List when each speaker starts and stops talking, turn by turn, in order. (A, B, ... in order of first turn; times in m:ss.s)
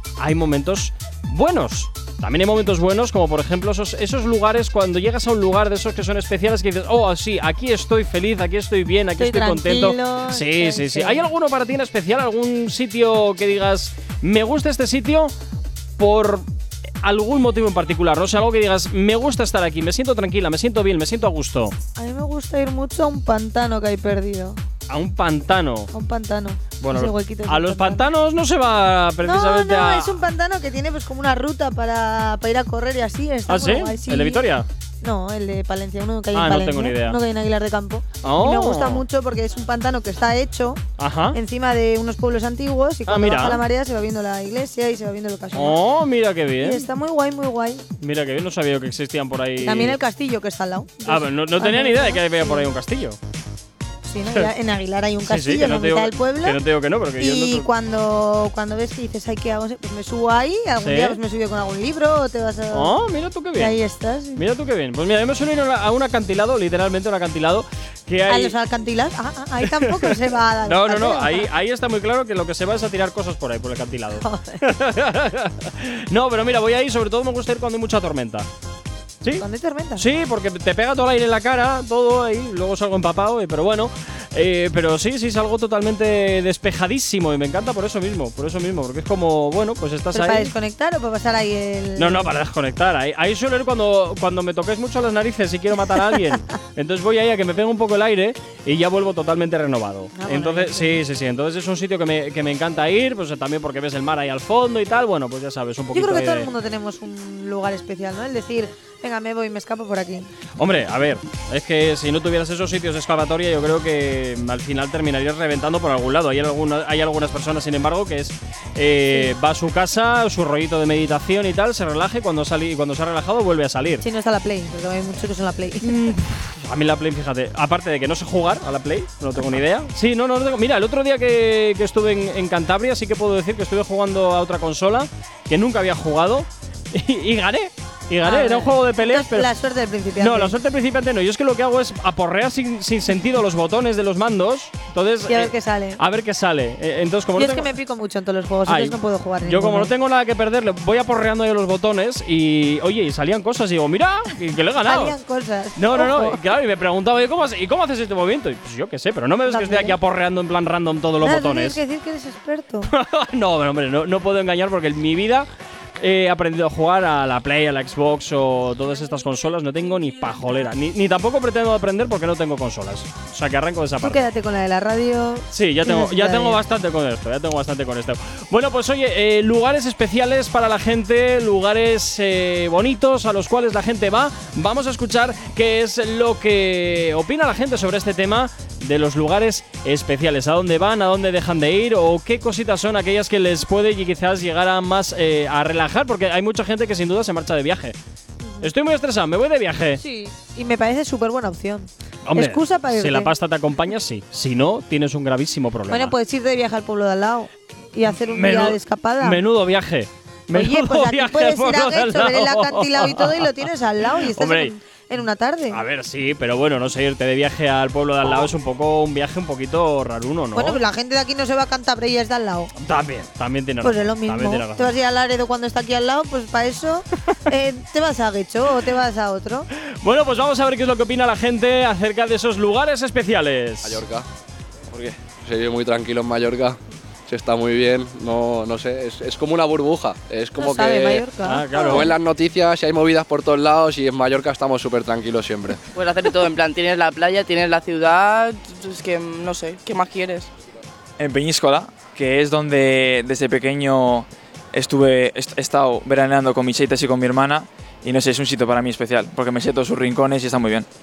0:00.2-0:15.3 A
0:09.2-0:11.3 B
0:16.0-0:16.4 A
0:17.0-0:21.7 A
0:22.0-0:24.6 B
0:24.9-0:25.9 A
0:25.9-0:28.1 B
0:26.8-0:30.2 A
0:29.2-0:34.5 B
0:33.5-0:34.7 A
0:35.0-0:45.8 B
0:36.3-0:37.2 A
0:38.2-0:39.0 A
0:41.0-0:41.4 A
0:43.1-0:43.6 A
0:45.5-0:46.9 A
0:46.6-0:47.8 B
0:48.0-0:50.0 A
0:49.6-0:52.7 B
0:51.0-0:53.2 A
0:54.0-0:56.6 B
0:55.2-0:57.7 A
0:57.2-1:02.9 B
1:00.8-1:01.2 A
1:02.7-1:03.8 A
1:03.6-1:04.4 B
1:04.3-1:08.6 A
1:08.3-1:11.5 B
1:09.7-1:18.5 A
1:14.2-1:14.6 B
1:19.3-1:20.0 B
1:20.0-1:30.5 A
1:30.1-1:32.3 B
1:32.0-1:46.5 A
1:35.9-1:36.3 B
1:40.1-1:41.0 B
1:45.9-1:50.3 B
1:50.6-2:04.0 A
2:04.0-2:06.0 B
2:05.8-2:19.5 A
2:18.2-2:20.6 B
2:20.2-2:27.7 A
2:25.3-2:26.0 B
2:27.4-2:29.9 B
2:28.6-2:35.1 A
2:34.8-2:36.4 B
2:35.8-2:41.8 A
2:39.5-2:40.0 B
2:41.2-2:42.9 B
2:42.9-2:45.5 A
2:46.0-2:54.2 A
2:54.0-2:56.6 B
2:55.5-3:18.0 A
3:18.4-3:18.7 B
3:18.6-3:20.0 A
3:20.0-3:23.3 B
3:22.2-3:26.1 A
3:25.9-3:29.4 B
3:28.3-3:33.7 A
3:30.5-3:35.8 B
3:34.2-3:34.7 A
3:35.7-3:40.8 A
3:40.5-3:42.7 B
3:42.8-3:44.9 A
3:43.8-3:49.7 B
3:50.0-3:54.0 A
3:53.8-3:54.2 C
3:54.9-3:56.8 C
3:57.3-4:01.2 C
4:00.6-4:02.1 B
4:01.4-4:02.1 A
4:01.9-4:05.8 C
4:05.9-4:10.5 D
4:11.2-4:20.9 E